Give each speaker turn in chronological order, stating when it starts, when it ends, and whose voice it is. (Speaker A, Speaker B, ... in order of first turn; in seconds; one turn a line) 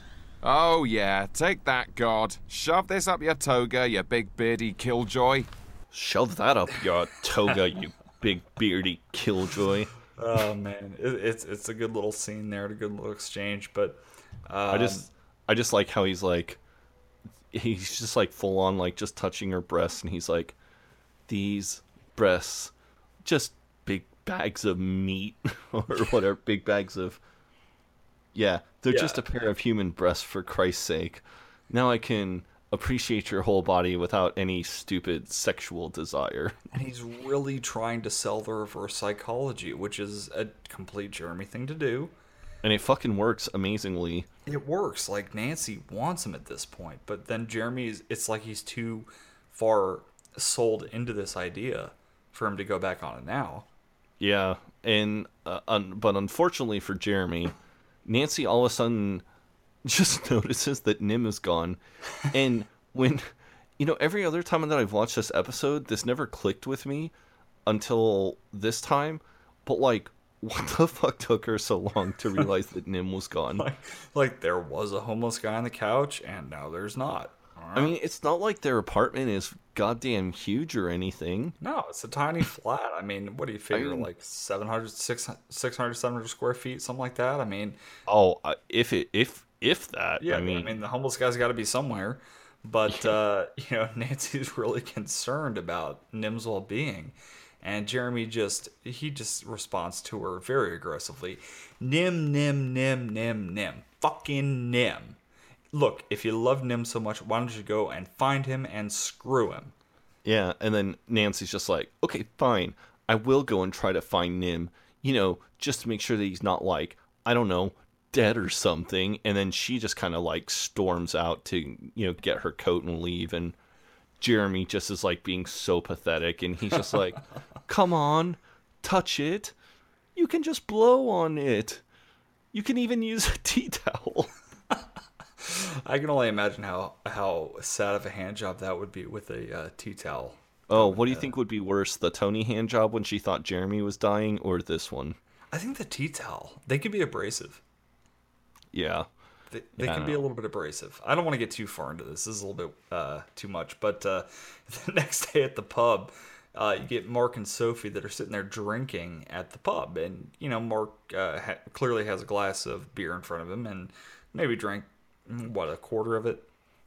Speaker A: 0.4-5.5
Speaker B: 5.9-9.9
Speaker C: 10.2-15.1
Speaker B: 14.7-16.6
Speaker B: 17.5-20.5
Speaker B: 21.3-22.7
Speaker B: 23.2-27.2
Speaker B: 28.3-36.5
Speaker C: 28.9-29.2
Speaker C: 36.7-42.1
Speaker B: 42.6-44.3
Speaker C: 44.5-53.6
Speaker B: 54.2-59.2
Speaker B: 59.8-67.1
Speaker B: 67.7-73.7
Speaker C: 73.6-77.9
Speaker B: 77.7-81.5
Speaker C: 81.6-87.8
Speaker B: 83.7-84.1
Speaker B: 88.1-90.7
Speaker C: 90.2-105.2
Speaker C: 105.7-109.7
Speaker B: 110.2-123.5
Speaker B: 124.2-129.5
Speaker B: 130.1-131.8
Speaker B: 132.5-134.3
Speaker C: 135.4-141.3
Speaker B: 140.7-145.2
Speaker C: 145.5-147.6
Speaker B: 148.7-149.1
Speaker C: 149.5-166.4
Speaker B: 149.8-150.2